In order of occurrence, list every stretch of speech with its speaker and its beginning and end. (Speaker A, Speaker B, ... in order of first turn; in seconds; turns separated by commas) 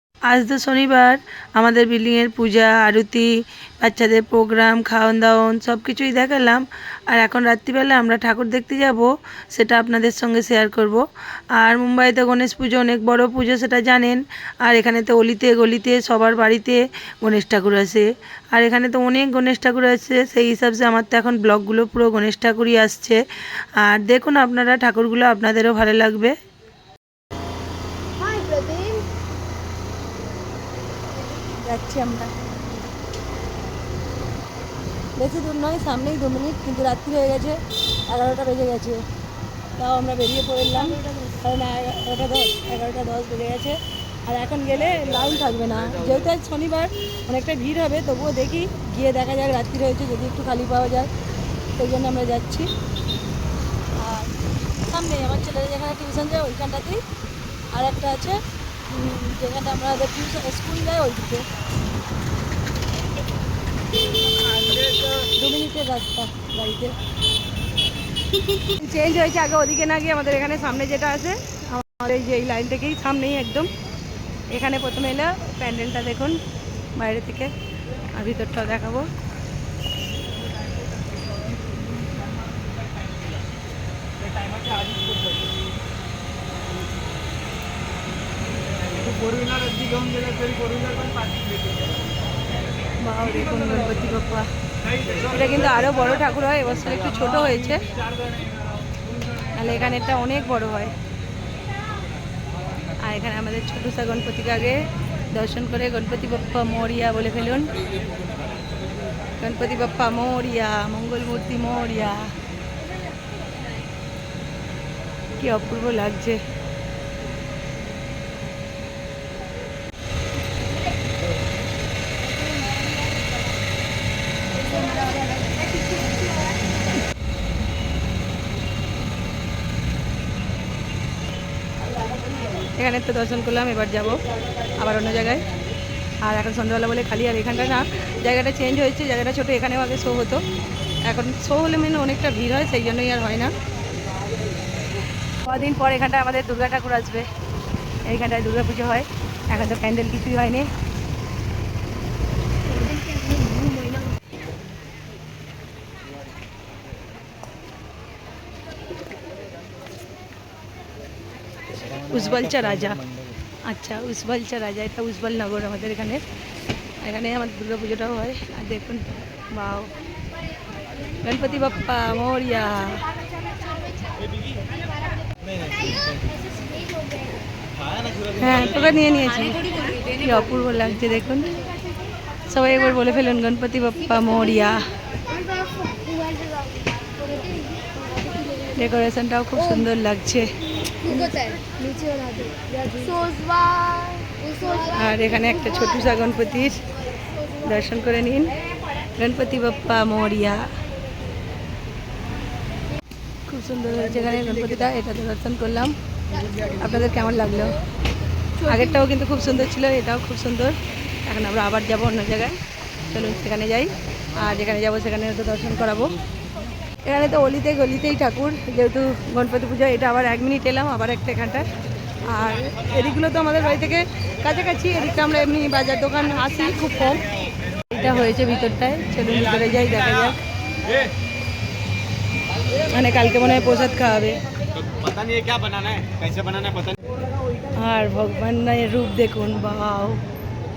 Speaker A: 0.3-3.3, Speaker A: 3.8-11.1, Speaker A: 11.6-23.2, Speaker A: 23.8-26.3, Speaker B: 28.2-29.1, Speaker C: 31.4-32.3, Speaker C: 35.2-39.1, Speaker C: 39.8-51.1, Speaker C: 51.8-52.7, Speaker C: 54.0-57.0, Speaker C: 57.7-61.5, Speaker C: 64.5-67.0, Speaker C: 68.3-73.7, Speaker C: 74.5-76.4, Speaker C: 77.0-77.5, Speaker C: 78.1-79.1, Speaker B: 90.0-90.5, Speaker C: 93.0-94.5, Speaker C: 95.3-97.9, Speaker C: 99.5-101.0, Speaker C: 103.0-107.7, Speaker C: 109.4-112.3, Speaker C: 115.4-116.4, Speaker C: 132.8-134.2, Speaker C: 134.8-135.4, Speaker C: 136.2-140.4, Speaker C: 141.0-143.5, Speaker C: 145.4-147.3, Speaker C: 148.1-150.7, Speaker C: 162.0-163.1, Speaker C: 163.6-166.2, Speaker C: 167.0-169.9, Speaker C: 171.2-173.1, Speaker C: 178.3-181.6, Speaker C: 182.5-184.9, Speaker B: 185.3-188.6, Speaker C: 188.7-193.3, Speaker B: 191.5-194.7, Speaker C: 194.6-196.9, Speaker C: 197.5-198.6, Speaker C: 199.2-200.7, Speaker C: 203.5-206.0, Speaker C: 206.6-207.8, Speaker C: 208.6-216.2, Speaker C: 217.1-221.7, Speaker C: 222.2-227.2, Speaker C: 227.9-230.4, Speaker C: 232.9-234.4, Speaker B: 235.3-236.8, Speaker C: 237.7-240.2